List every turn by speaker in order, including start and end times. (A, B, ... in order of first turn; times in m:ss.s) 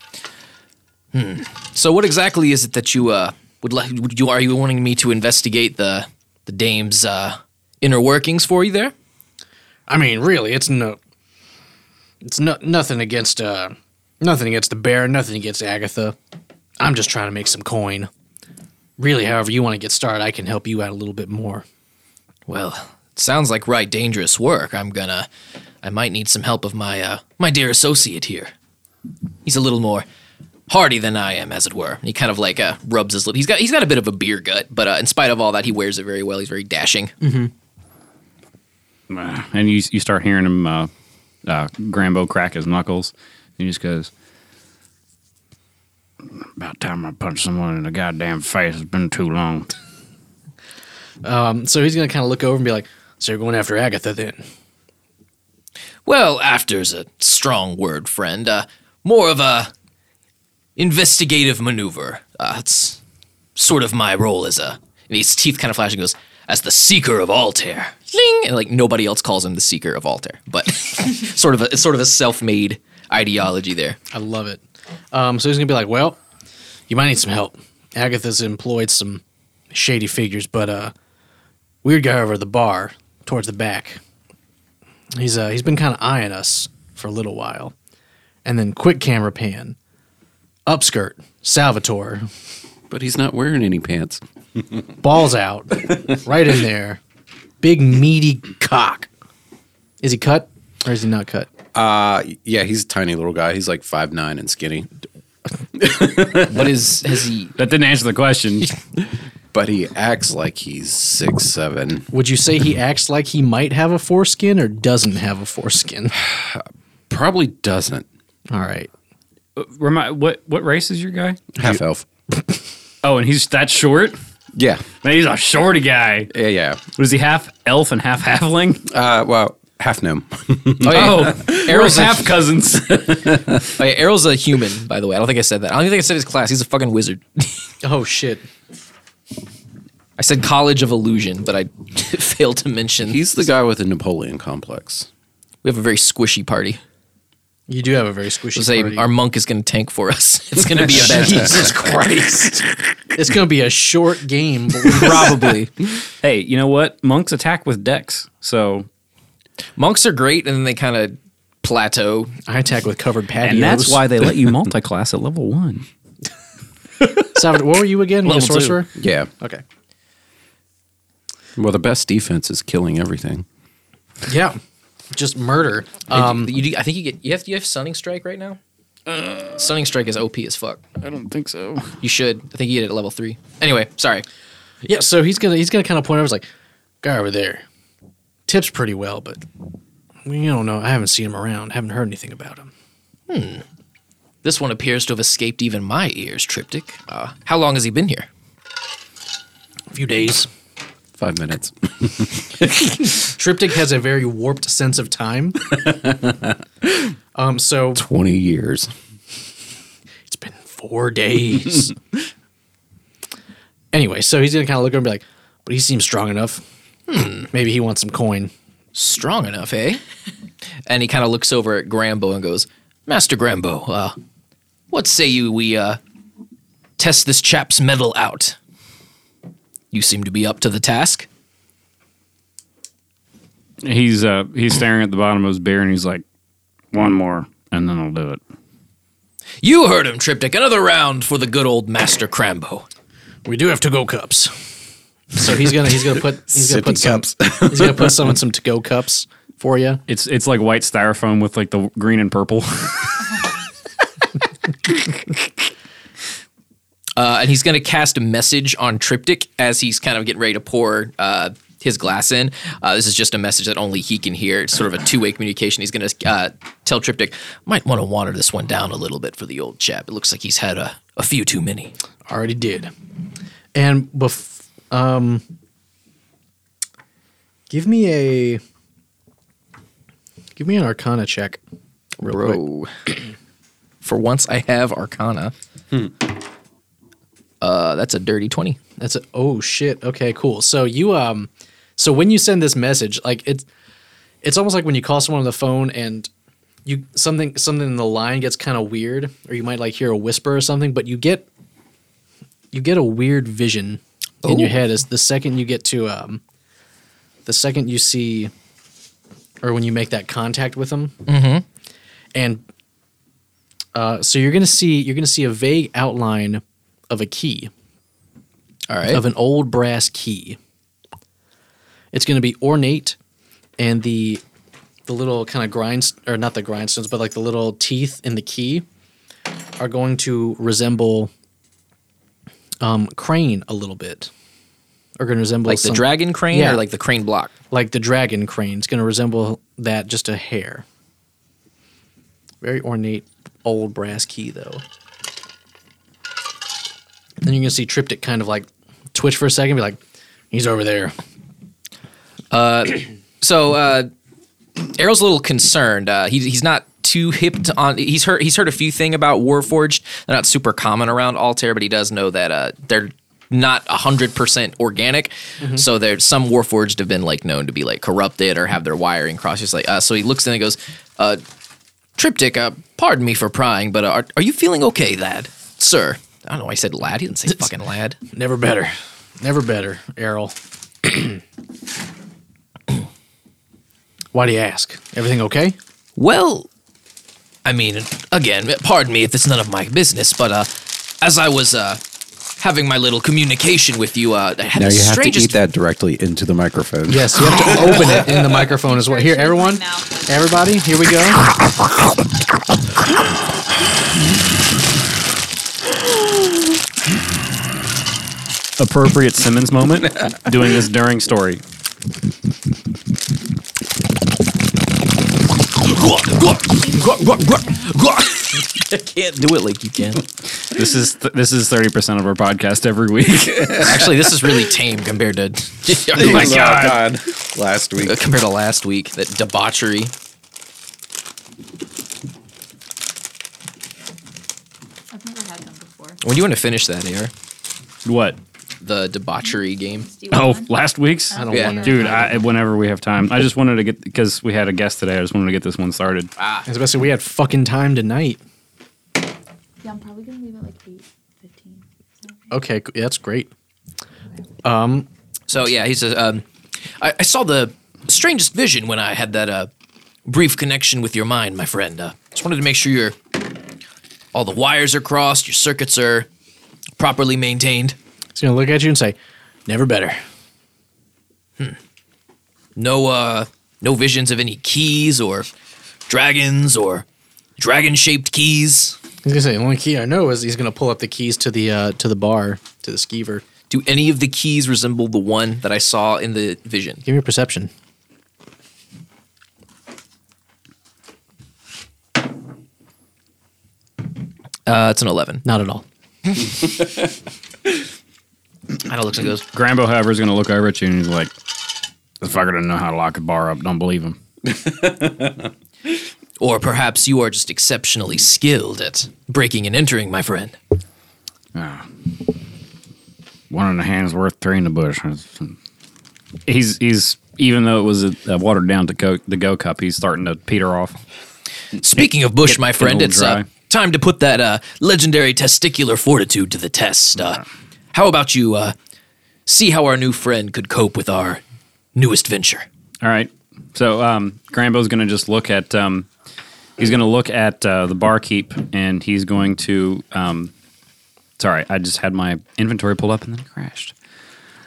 0:01.1-0:08.9 A
0:09.9-0:11.0 B
0:12.2-0:16.2 B
0:16.8-0:18.1 B
0:19.0-0:21.6 B
0:22.5-0:25.3 A
0:25.8-0:28.5 A
0:29.4-0:30.1 A
0:30.7-0:37.2 A
0:37.2-0:37.5 B
0:39.1-0:40.9 C
0:41.5-0:44.1 C
0:46.3-0:49.7 C
0:51.2-0:54.4 B
0:56.0-0:59.7 A
1:00.8-1:03.0 A
1:03.6-1:14.0 A
1:14.1-1:16.2 B
1:16.9-1:20.9 B
1:21.8-1:24.0 B
1:25.2-1:27.7 B
1:28.4-1:29.8 B
1:30.7-1:32.3 B
1:32.9-1:34.2 D
1:35.0-1:37.0 B
1:37.6-1:39.1 B
1:40.0-1:41.5 B
1:41.7-1:44.9 D
1:45.8-1:46.7 D
1:46.3-1:47.5 A
1:47.6-1:48.7 C
1:49.5-1:52.1 D
1:52.1-1:56.2 B
1:56.2-1:58.1 D
1:58.5-1:58.9 B
1:59.6-2:01.6 C
2:01.6-2:02.1 D
2:03.0-2:04.2 C
2:04.5-2:04.9 D
2:05.0-2:06.3 C
2:06.3-2:06.8 D
2:07.0-2:08.8 C
2:08.9-2:11.4 D
2:10.8-2:12.3 A
2:10.9-2:13.7 C
2:13.7-2:17.7 A
2:17.8-2:18.5 B
2:20.2-2:23.2 A
2:23.0-2:25.1 D
2:25.6-2:26.8 A
2:27.7-2:29.1 B
2:28.5-2:32.0 A
2:30.9-2:35.4 B
2:34.9-2:35.7 A
2:36.2-2:38.9 C
2:39.8-2:42.3 A
2:42.5-2:44.1 B
2:43.4-2:45.8 C
2:47.3-2:49.6 B
2:48.3-2:48.6 C
2:49.0-2:49.3 D
2:51.6-2:53.5 D
2:54.3-2:54.6 B
2:55.1-2:56.5 B
2:56.1-2:58.6 A
2:59.1-2:59.6 C
2:59.6-3:00.8 A
3:01.0-3:02.0 C
3:02.0-3:04.2 A
3:04.8-3:06.5 B
3:07.0-3:07.6 B
3:08.5-3:09.4 B
3:10.2-3:12.7 B
3:13.3-3:13.6 A
3:14.4-3:18.3 A
3:19.9-3:20.5 B
3:21.2-3:22.6 D
3:23.0-3:25.6 B
3:27.4-3:28.0 B
3:28.0-3:28.9 D
3:30.3-3:32.0 B
3:33.9-3:36.6 B
3:37.1-3:37.5 A
3:37.5-3:38.5 B
3:38.9-3:40.0 A
3:40.9-3:44.2 A
3:44.9-3:46.0 A
3:47.0-3:48.6 A
3:49.9-3:51.3 A
3:53.8-3:56.2 C
3:56.9-3:58.4 C
3:59.6-4:02.9 A
4:03.5-4:04.6 B
4:05.3-4:10.0 B
4:06.5-4:08.4 D
4:10.1-4:13.2 C
4:17.2-4:31.9 A
4:32.3-4:32.9 B
4:33.8-4:35.4 B
4:37.7-4:38.6 B
4:40.6-4:41.6 B
4:42.2-4:42.6 B
4:42.2-4:43.1 A
4:44.0-4:45.5 A
4:47.6-4:48.8 A
4:49.0-4:53.7 B
4:54.4-4:56.3 B
4:56.9-5:01.5 B
5:02.7-5:06.4 B
5:04.4-5:04.8 A
5:07.5-5:08.5 B
5:09.6-5:11.2 B
5:11.3-5:11.6 A
5:12.4-5:12.6 B
5:14.0-5:17.7 B
5:18.9-5:19.2 A
5:19.1-5:20.6 B
5:22.1-5:23.2 B
5:23.8-5:24.4 B
5:25.1-5:28.8 B
5:29.8-5:31.3 B
5:32.8-5:34.3 B
5:35.2-5:36.8 B
5:35.7-5:37.5 A
5:37.7-5:40.8 B
5:42.6-5:44.8 B
5:47.4-5:50.0 B
5:50.5-5:51.2 B
5:52.5-5:54.1 A
5:54.8-6:11.4 A
6:12.2-6:18.2 A
6:18.3-6:21.4 B
6:24.3-6:25.8 B
6:26.2-6:26.7 A
6:27.6-6:30.7 A
6:31.2-6:32.0 A
6:32.6-6:35.6 A
6:34.8-6:37.9 D
6:37.1-6:41.5 B
6:38.0-6:40.9 E
6:48.8-6:51.6 C
6:55.8-7:00.2 A
6:56.8-6:57.9 E
7:00.7-7:03.9 C
7:03.5-7:04.6 D
7:03.8-7:07.0 A
7:06.1-7:08.2 D
7:06.2-7:07.0 C
7:08.0-7:10.1 A
7:15.1-7:16.2 E
7:16.2-7:17.3 A
7:18.0-7:18.4 C
7:18.8-7:20.1 A
7:19.5-7:20.7 E
7:20.3-7:26.3 C
7:21.3-7:22.3 E
7:21.3-7:22.4 B
7:21.5-7:21.8 A
7:26.4-7:26.7 A
7:26.7-7:28.4 B
7:29.8-7:32.6 E
7:32.5-7:33.5 B
7:34.6-7:35.1 B
7:35.5-7:36.4 A
7:37.0-7:39.7 A
7:40.3-7:43.2 A
7:44.3-7:46.3 A
7:47.0-7:48.0 A
7:48.4-7:49.2 B
7:49.7-7:50.2 B
7:52.8-7:55.5 A
7:56.1-7:57.0 A
7:57.6-7:59.0 A
7:59.2-8:03.4 B
8:03.7-8:07.0 A
8:07.0-8:07.7 B
8:14.7-8:15.4 A
8:15.4-8:15.8 B
8:18.8-8:19.4 A
8:19.5-8:21.3 C
8:22.2-8:24.2 C
8:24.4-8:25.5 D
8:26.4-8:30.6 A
8:31.6-8:32.0 C
8:33.5-8:35.6 C
8:36.5-8:41.0 C
8:41.8-8:48.8 A
8:41.9-8:43.5 C
8:49.5-8:51.4 A
8:52.0-8:52.6 A
8:53.0-8:56.1 C
8:56.8-9:00.5 C
9:01.4-9:03.9 C